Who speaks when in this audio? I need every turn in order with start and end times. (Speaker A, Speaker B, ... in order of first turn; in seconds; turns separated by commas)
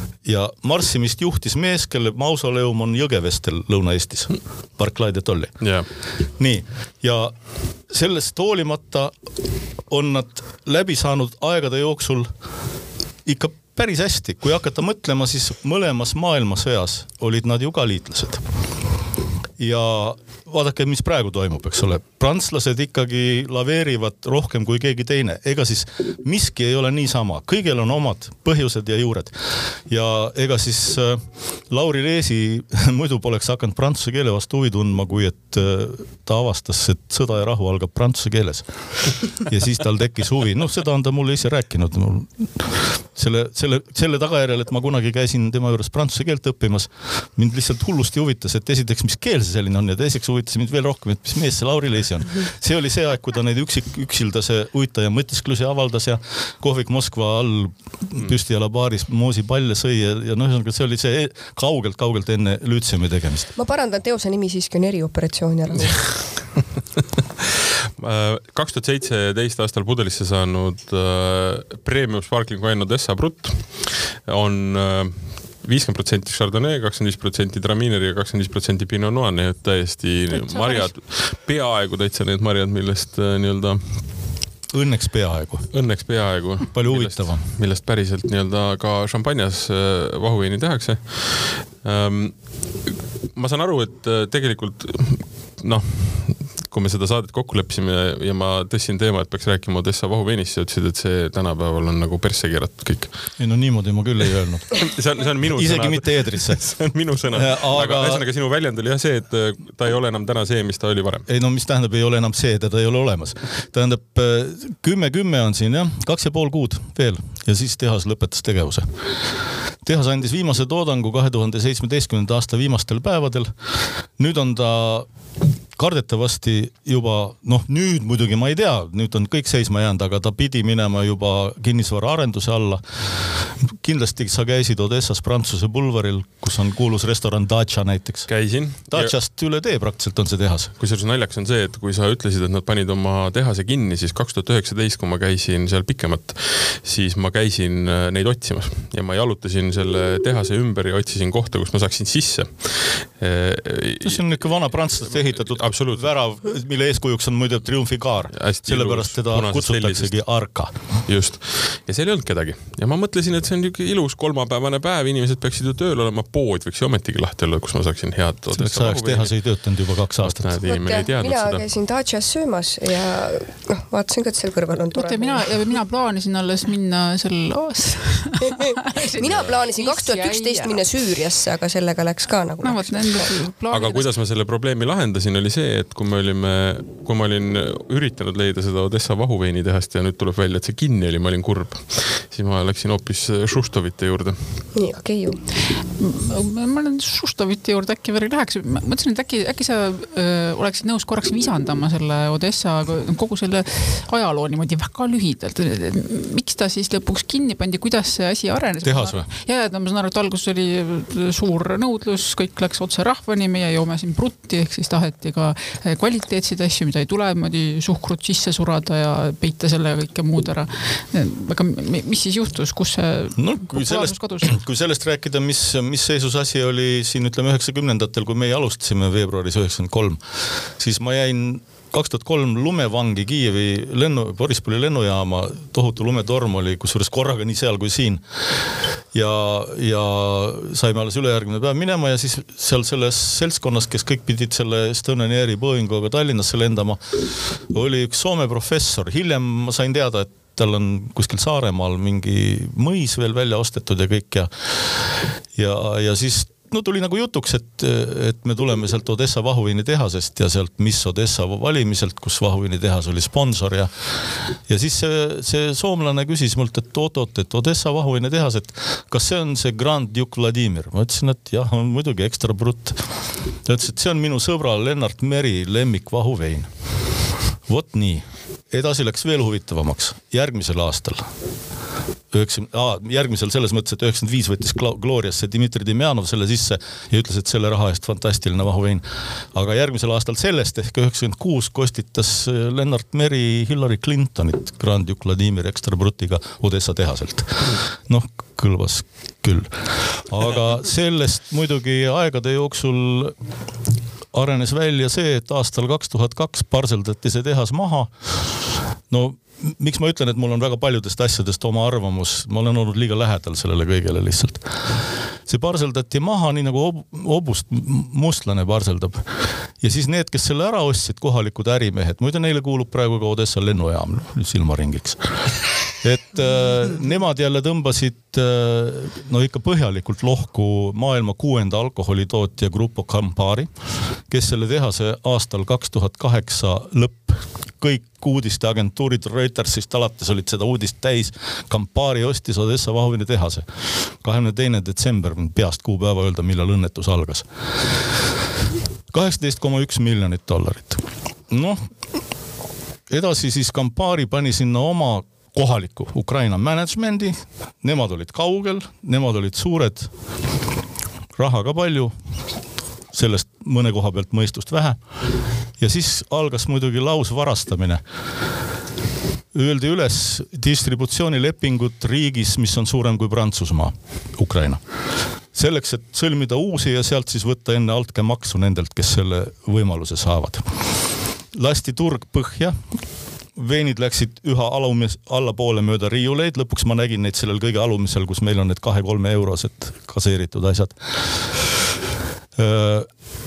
Speaker A: 0.2-5.7, Speaker B: 5.6-5.9, Speaker A: 6.4-7.3, Speaker A: 7.9-9.1, Speaker A: 9.9-12.3, Speaker A: 13.2-18.4, Speaker A: 19.6-29.3, Speaker A: 29.9-63.5, Speaker C: 63.6-66.1, Speaker B: 68.0-84.3, Speaker D: 80.3-80.9, Speaker A: 84.7-85.7, Speaker B: 85.7-103.4, Speaker A: 86.7-87.4, Speaker A: 103.4-104.9, Speaker B: 104.8-111.3, Speaker A: 105.5-108.2, Speaker A: 111.3-119.0, Speaker A: 119.8-125.1, Speaker A: 125.8-138.3, Speaker B: 138.3-139.1, Speaker A: 138.9-140.7, Speaker B: 140.8-156.1, Speaker A: 154.0-160.7, Speaker B: 158.3-160.2, Speaker B: 161.0-169.4, Speaker A: 168.5-170.5, Speaker B: 170.2-171.6, Speaker C: 170.6-175.6, Speaker D: 174.9-180.8, Speaker C: 178.5-183.3, Speaker D: 182.6-184.1, Speaker B: 183.7-194.7, Speaker C: 194.7-195.4, Speaker D: 196.0-224.6, Speaker A: 208.8-209.3, Speaker A: 223.3-230.2, Speaker A: 230.8-238.2, Speaker A: 239.1-263.9, Speaker A: 264.5-276.7, Speaker A: 277.7-281.3, Speaker A: 282.3-303.4, Speaker A: 304.3-308.1, Speaker A: 309.1-314.8, Speaker A: 315.5-325.4, Speaker A: 326.0-333.7, Speaker A: 334.3-343.7, Speaker A: 344.2-347.5, Speaker A: 349.1-351.8, Speaker A: 353.1-360.1, Speaker A: 361.4-362.1, Speaker A: 363.1-365.0, Speaker A: 365.8-368.0, Speaker A: 369.5-374.8, Speaker A: 375.5-380.7, Speaker A: 381.5-382.8, Speaker A: 383.6-391.6, Speaker A: 392.6-393.1